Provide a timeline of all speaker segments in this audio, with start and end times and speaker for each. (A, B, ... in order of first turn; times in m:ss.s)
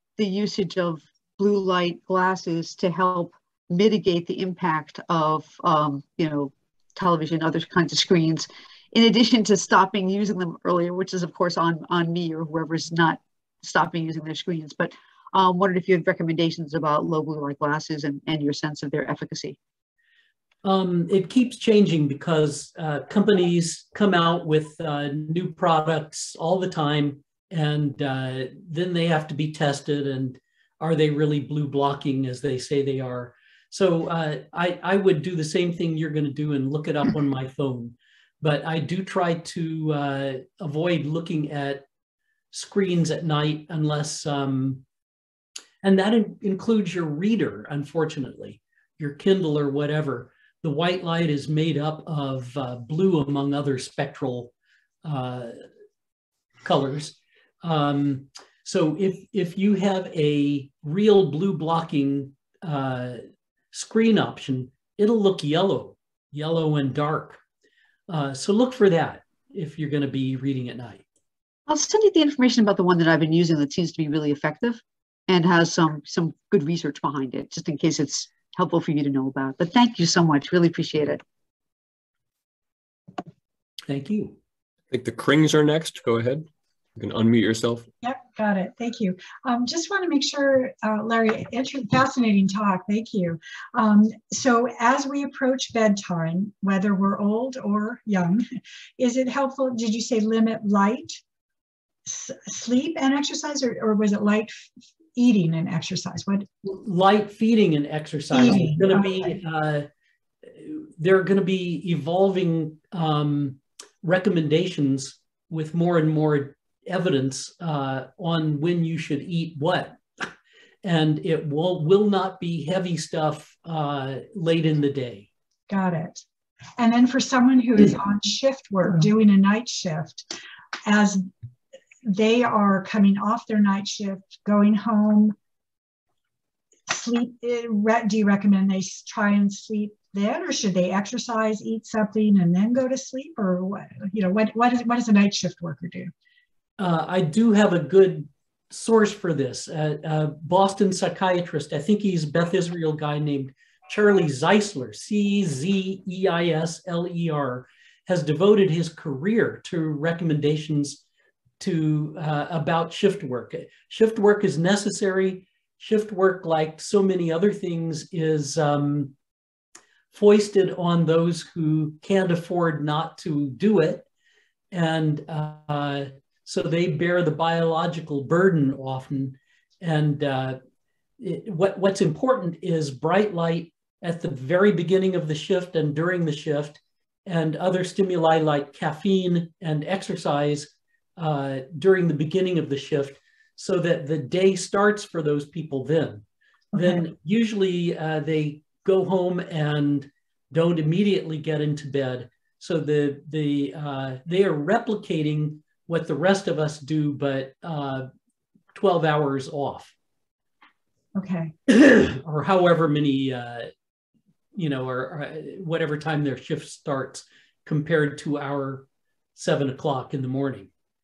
0:00.2-0:19.6 A
0:20.6-0:41.8 B
0:42.5-0:44.8 B
0:45.8-0:54.5 B
0:55.0-0:55.6 B
0:56.6-1:03.2 B
1:03.7-1:07.4 B
1:08.1-1:11.0 B
1:11.7-1:21.2 A
1:23.9-1:24.4 B
1:24.9-1:27.9 C
1:28.0-1:38.4 D
1:39.0-1:41.2 D
1:42.1-1:46.5 D
1:46.6-1:49.9 B
1:48.3-1:49.2 D
1:50.6-2:00.0 B
2:00.8-2:05.3 B
2:05.7-2:06.2 D
2:06.8-2:10.3 D
2:10.9-2:11.3 D
2:12.1-2:15.4 D
2:16.9-2:26.1 D
2:26.8-2:41.0 B
2:41.6-2:49.1 B
2:50.1-2:54.1 B
2:54.7-3:00.6 B
3:01.2-3:16.2 B
3:16.8-3:28.1 B
3:28.8-3:29.9 B
3:31.2-3:31.5 D
3:31.7-3:33.7 B
3:34.6-3:40.7 B